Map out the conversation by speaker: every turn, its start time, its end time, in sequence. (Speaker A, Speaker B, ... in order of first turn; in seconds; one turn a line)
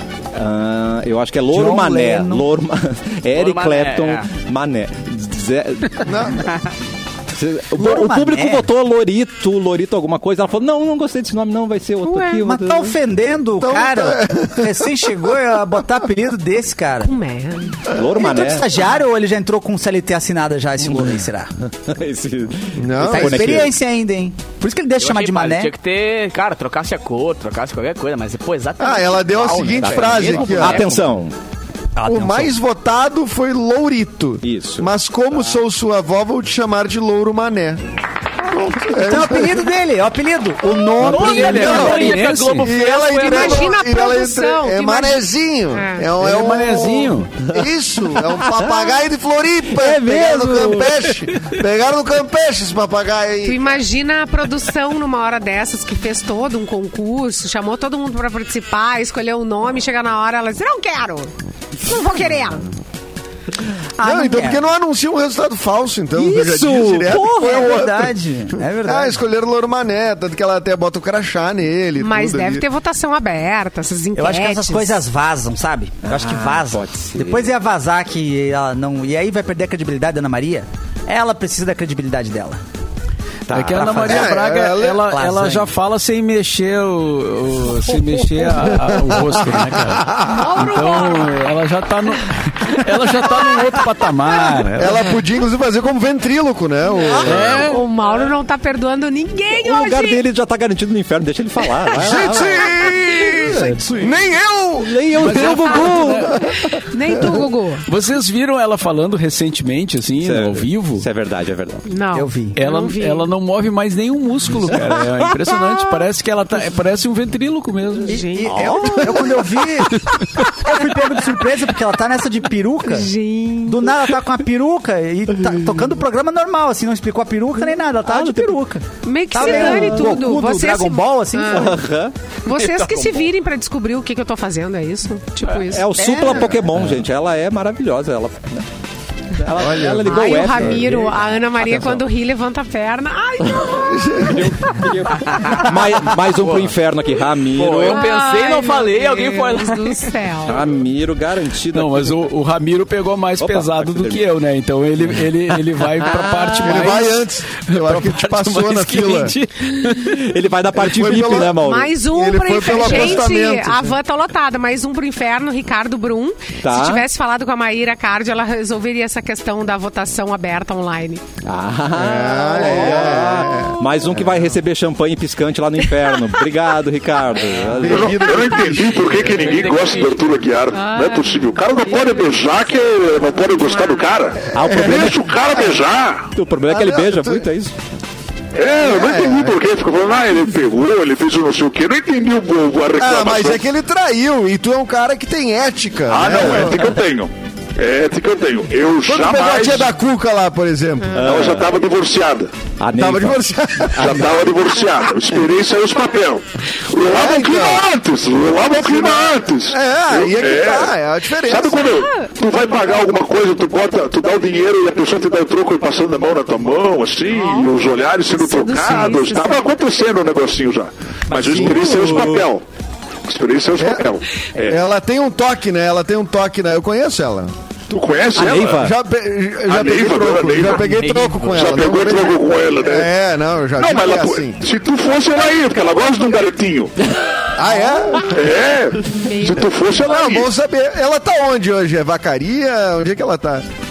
Speaker A: 0.3-6.4
Speaker B: 1.5-2.5
Speaker C: 3.3-4.3
Speaker D: 6.0-6.5
Speaker A: 7.3-13.0
Speaker B: 7.8-8.7
Speaker E: 12.0-12.4
Speaker B: 12.4-17.1
Speaker D: 13.6-15.2
Speaker E: 17.0-17.8
Speaker A: 17.9-18.8
Speaker B: 18.1-21.5
Speaker A: 20.8-23.7
Speaker D: 22.8-23.7
Speaker B: 23.0-25.7
Speaker C: 25.0-31.1
Speaker D: 28.8-30.9
Speaker A: 29.7-31.4
Speaker B: 32.0-32.5
Speaker D: 32.0-37.8
Speaker A: 34.4-34.9
Speaker D: 38.6-39.6
Speaker B: 38.9-42.1
Speaker C: 41.0-43.7
Speaker F: 41.1-42.7
Speaker D: 41.1-53.8
Speaker E: 43.1-46.1
Speaker F: 46.2-47.3
Speaker A: 47.5-48.9
Speaker A: 49.7-51.1
Speaker E: 53.4-62.7
Speaker B: 64.0-64.6
Speaker D: 64.0-68.2
Speaker A: 66.2-67.5
Speaker B: 67.0-69.2
Speaker D: 68.8-72.6
Speaker E: 72.0-75.0
Speaker B: 74.2-82.6
Speaker A: 76.0-77.5
Speaker A: 83.5-84.0
Speaker F: 83.5-95.1
Speaker B: 83.6-84.3
Speaker D: 84.1-85.0
Speaker B: 85.0-85.7
Speaker B: 87.9-88.7
Speaker D: 88.8-90.5
Speaker E: 90.2-91.3
Speaker D: 94.8-97.6
Speaker F: 97.2-97.8
Speaker E: 97.5-100.2
Speaker A: 99.6-103.0
Speaker D: 101.9-105.3
Speaker F: 103.4-104.1
Speaker A: 104.8-106.7
Speaker F: 105.2-106.3
Speaker E: 105.7-107.8
Speaker F: 107.9-111.1
Speaker A: 110.2-111.8
Speaker E: 111.9-113.3
Speaker B: 112.1-112.6
Speaker F: 112.6-118.2
Speaker A: 114.7-115.0
Speaker E: 118.1-119.3
Speaker B: 118.1-123.1
Speaker A: 118.5-119.4
Speaker E: 122.8-124.0
Speaker B: 123.7-131.8
Speaker A: 128.0-128.6
Speaker E: 129.0-131.8
Speaker A: 129.4-130.2
Speaker A: 131.5-132.1
Speaker E: 132.4-135.9
Speaker C: 132.5-133.3
Speaker A: 135.7-138.7
Speaker B: 136.0-136.7
Speaker A: 139.4-142.0
Speaker D: 139.5-140.9
Speaker E: 140.0-144.3
Speaker A: 143.5-148.0
Speaker D: 143.8-144.6
Speaker C: 145.3-146.8
Speaker C: 147.5-150.1
Speaker E: 147.8-150.6
Speaker A: 150.4-152.3
Speaker F: 151.7-160.2
Speaker A: 153.4-154.3
Speaker A: 155.0-157.1
Speaker D: 156.6-159.3
Speaker A: 159.8-162.0
Speaker D: 160.7-164.0
Speaker E: 161.5-171.2
Speaker A: 162.8-163.2
Speaker A: 166.6-167.1
Speaker A: 171.4-178.7
Speaker D: 171.9-174.4
Speaker D: 177.8-179.4
Speaker G: 177.8-186.3
Speaker C: 179.3-180.2
Speaker E: 180.7-182.2
Speaker E: 183.6-184.1
Speaker A: 184.5-185.5
Speaker D: 184.6-184.9
Speaker A: 186.3-187.8
Speaker D: 186.7-187.5
Speaker G: 188.6-193.6
Speaker D: 188.8-189.6
Speaker D: 193.0-196.9
Speaker G: 196.1-199.9
Speaker D: 199.1-201.4
Speaker A: 201.2-201.8
Speaker G: 201.2-202.5
Speaker A: 202.8-204.4
Speaker D: 202.9-204.3
Speaker G: 204.0-222.6
Speaker D: 207.0-207.8
Speaker D: 208.8-211.9
Speaker E: 212.0-212.3
Speaker E: 217.3-219.7
Speaker A: 221.3-222.5
Speaker D: 221.3-222.2
Speaker G: 223.2-224.8
Speaker D: 223.8-224.1
Speaker D: 224.6-227.5
Speaker G: 227.9-228.9
Speaker A: 228.3-228.9
Speaker D: 228.8-234.6
Speaker G: 229.7-233.1
Speaker C: 230.8-231.7
Speaker G: 233.8-236.9
Speaker D: 237.6-238.4
Speaker G: 238.2-240.5
Speaker E: 239.2-239.8
Speaker D: 240.0-243.7